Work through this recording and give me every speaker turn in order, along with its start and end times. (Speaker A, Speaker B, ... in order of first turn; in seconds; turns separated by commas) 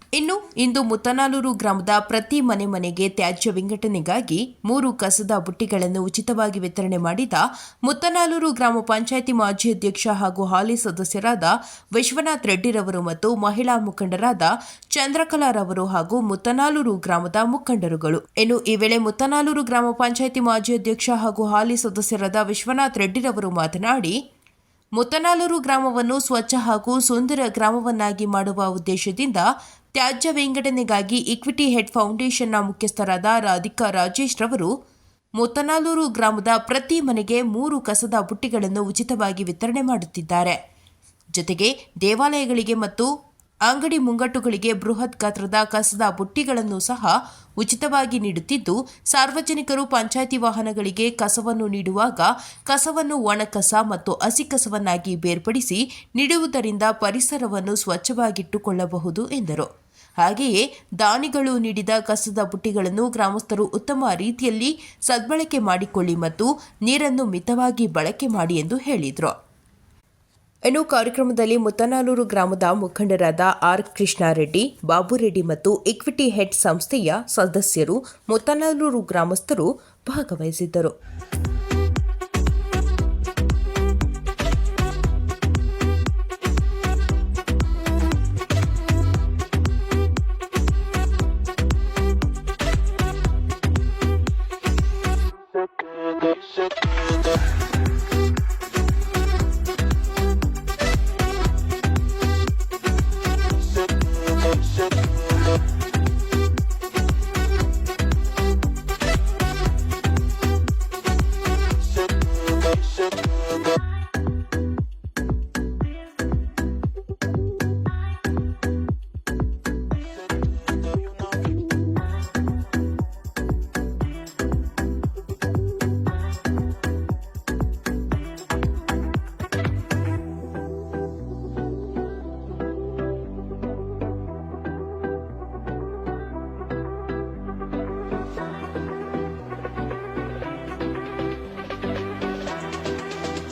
Speaker A: 0.1-24.1, Speaker A: 25.0-34.7, Speaker A: 35.4-40.6, Speaker A: 41.3-43.1, Speaker A: 43.6-59.7, Speaker A: 60.2-69.3, Speaker A: 70.7-80.9